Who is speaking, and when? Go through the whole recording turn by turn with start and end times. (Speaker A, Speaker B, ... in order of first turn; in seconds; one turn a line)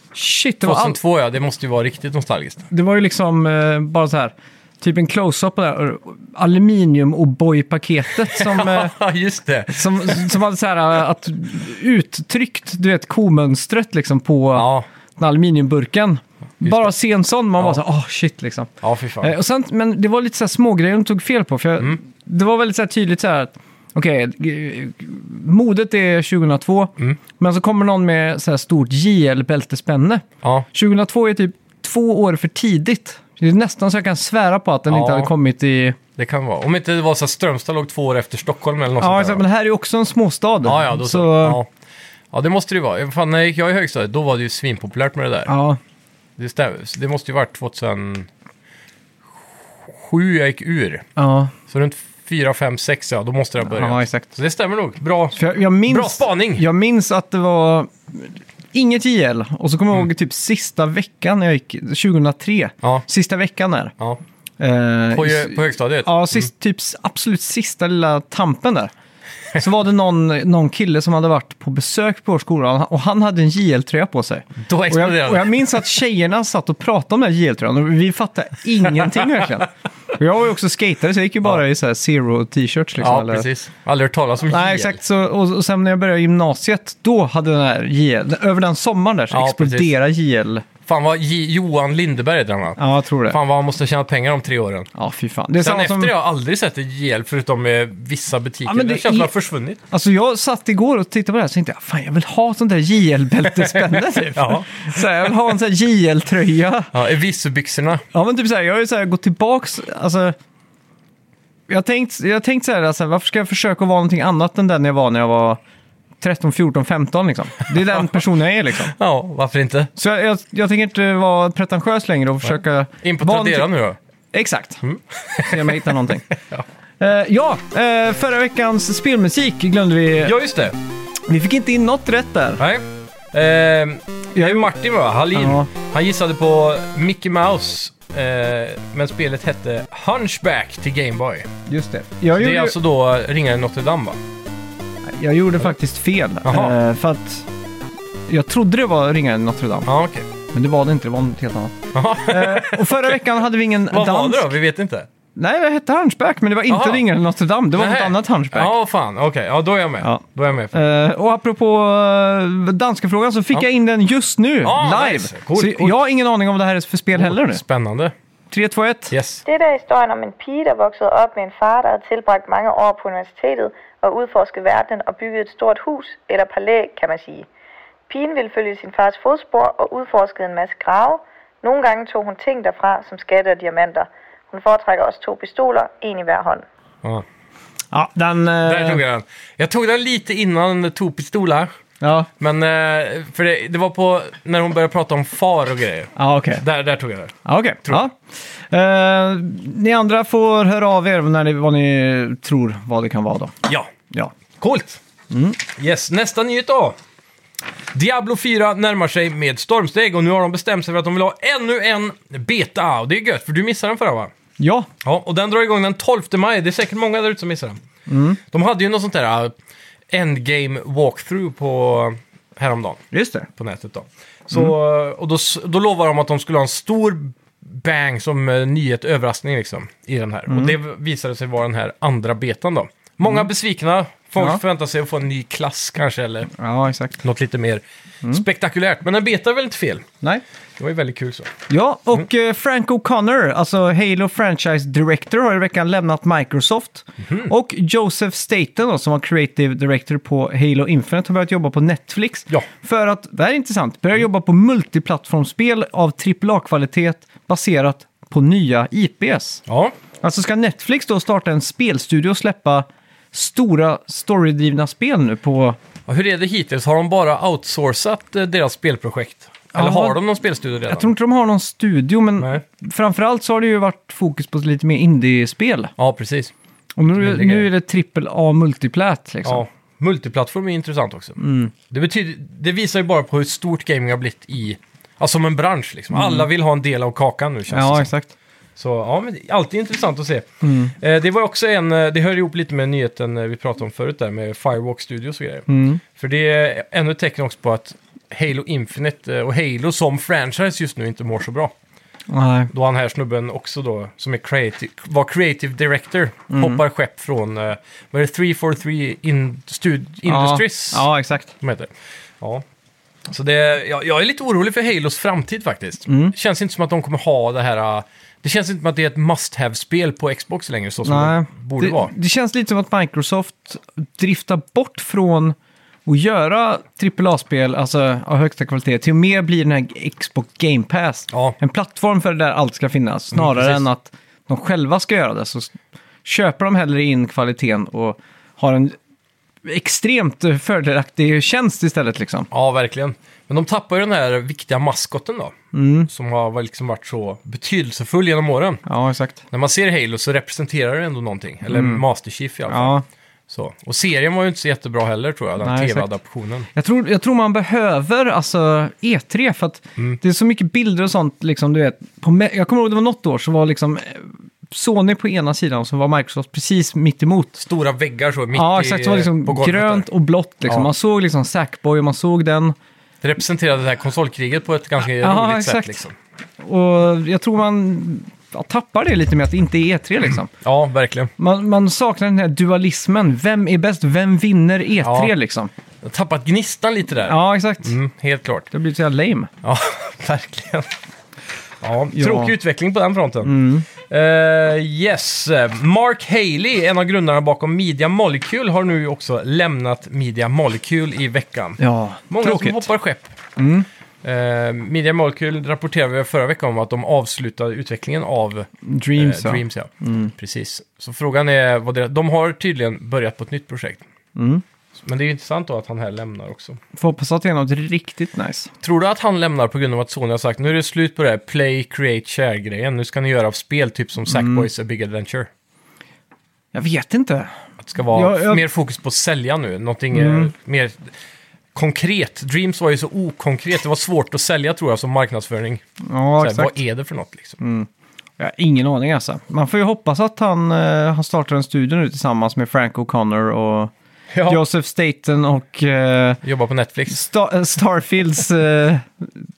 Speaker A: 0.1-1.0
Speaker B: 0.6-2.7
Speaker A: 2.7-9.0
Speaker B: 8.3-10.3
Speaker A: 9.7-36.0
Speaker B: 14.6-14.9
Speaker B: 16.6-16.9
Speaker B: 18.8-19.4
Speaker B: 34.9-35.3
Speaker B: 36.2-39.4
Speaker A: 39.0-41.6
Speaker B: 40.7-41.7
Speaker B: 42.3-45.5
Speaker A: 45.5-45.8
Speaker B: 46.4-48.3
Speaker B: 49.8-51.1
Speaker A: 51.2-51.5
Speaker B: 51.7-56.6
Speaker A: 53.6-54.3
Speaker A: 55.3-63.9
Speaker A: 64.6-68.9
Speaker B: 65.1-66.5
Speaker A: 69.5-83.5
Speaker B: 74.6-75.7
Speaker B: 83.0-85.0
Speaker A: 84.5-90.7
Speaker B: 89.3-89.9
Speaker B: 90.9-94.9
Speaker A: 92.8-93.4
Speaker A: 95.0-96.1
Speaker B: 95.6-99.8
Speaker A: 98.7-99.3
Speaker A: 99.9-106.9
Speaker B: 103.7-104.9
Speaker B: 106.9-108.0
Speaker A: 108.1-110.4
Speaker A: 111.7-115.6
Speaker A: 116.2-119.0
Speaker B: 118.9-119.9
Speaker A: 120.0-123.7
Speaker B: 123.0-124.0
Speaker A: 124.3-124.8
Speaker B: 124.8-126.6
Speaker A: 125.4-126.3
Speaker A: 127.0-130.3
Speaker B: 130.2-130.8
Speaker A: 131.3-132.6
Speaker B: 132.6-141.5
Speaker A: 134.3-134.7
Speaker A: 135.3-135.7
Speaker A: 141.7-142.8
Speaker B: 142.3-144.2
Speaker A: 145.1-147.5
Speaker B: 146.4-146.8
Speaker A: 148.3-149.9
Speaker B: 149.8-150.3
Speaker A: 150.5-154.5
Speaker B: 151.9-153.4
Speaker B: 153.9-155.1
Speaker A: 155.4-158.7
Speaker B: 156.7-157.0
Speaker B: 157.8-160.8
Speaker A: 160.0-167.6
Speaker B: 164.6-166.0
Speaker B: 167.2-168.1
Speaker A: 168.5-169.1
Speaker B: 169.1-169.4
Speaker C: 169.4-177.5
Speaker C: 178.1-186.7
Speaker A: 187.9-189.0
Speaker B: 188.7-191.7
Speaker A: 192.0-192.3
Speaker B: 192.4-198.1
Speaker A: 196.2-196.6
Speaker A: 197.4-198.2
Speaker A: 198.7-203.6
Speaker B: 203.7-203.9
Speaker B: 204.6-205.0
Speaker A: 205.3-205.6
Speaker B: 205.8-207.0
Speaker B: 207.9-214.3
Speaker A: 214.6-214.9
Speaker B: 215.0-217.8
Speaker A: 218.1-218.4
Speaker B: 218.5-219.6
Speaker B: 220.1-223.0
Speaker A: 223.1-223.5
Speaker B: 223.5-236.5
Speaker A: 236.5-237.2
Speaker B: 237.2-240.1
Speaker B: 240.8-241.5
Speaker A: 241.7-259.6
Speaker B: 247.2-247.5
Speaker B: 259.7-259.9
Speaker A: 260.2-265.8
Speaker B: 266.1-271.1
Speaker A: 269.7-270.2
Speaker A: 270.9-275.9
Speaker B: 276.0-276.5
Speaker A: 277.0-279.7
Speaker B: 277.2-277.7
Speaker B: 279.4-288.1
Speaker A: 281.4-281.7
Speaker A: 286.1-286.4
Speaker A: 287.7-288.3
Speaker B: 288.8-301.7
Speaker A: 290.6-290.9
Speaker A: 295.7-296.0
Speaker A: 302.3-302.7
Speaker B: 302.7-311.1
Speaker A: 306.5-306.8
Speaker A: 310.3-311.5
Speaker B: 311.6-312.6
Speaker B: 313.3-322.1
Speaker A: 316.1-316.3
Speaker A: 321.1-325.6
Speaker A: 326.1-335.7
Speaker B: 331.3-331.6
Speaker B: 333.3-333.8
Speaker A: 336.2-339.0
Speaker A: 339.6-342.5
Speaker B: 342.5-345.6
Speaker A: 345.7-346.1
Speaker B: 346.1-348.8
Speaker A: 348.9-349.4
Speaker B: 349.5-353.0
Speaker A: 351.7-352.0
Speaker A: 352.7-353.0
Speaker B: 353.5-356.7
Speaker A: 355.6-356.1
Speaker A: 356.7-367.6
Speaker B: 367.6-370.1
Speaker A: 368.5-372.8
Speaker B: 373.2-376.1
Speaker A: 375.1-376.0
Speaker A: 376.6-380.5
Speaker B: 380.5-381.3
Speaker A: 381.4-385.7
Speaker B: 385.0-385.3
Speaker B: 386.0-388.7
Speaker A: 387.2-388.0
Speaker A: 388.7-389.5
Speaker B: 389.6-390.9
Speaker B: 391.8-403.4
Speaker A: 392.1-392.5
Speaker A: 393.4-393.9
Speaker A: 401.8-402.9
Speaker A: 403.6-403.9
Speaker B: 404.2-414.0
Speaker A: 408.8-410.3
Speaker A: 414.4-414.6
Speaker B: 415.0-416.8
Speaker A: 416.9-418.7
Speaker B: 418.8-425.5
Speaker A: 424.3-424.7
Speaker A: 426.7-427.5
Speaker B: 427.8-431.1
Speaker A: 428.1-428.6
Speaker A: 430.1-430.5
Speaker B: 431.8-435.8
Speaker A: 436.0-436.8
Speaker B: 436.4-437.6
Speaker A: 437.6-437.9
Speaker A: 438.4-443.9
Speaker B: 444.3-444.6
Speaker A: 444.5-446.4
Speaker B: 446.4-447.3
Speaker A: 447.1-449.3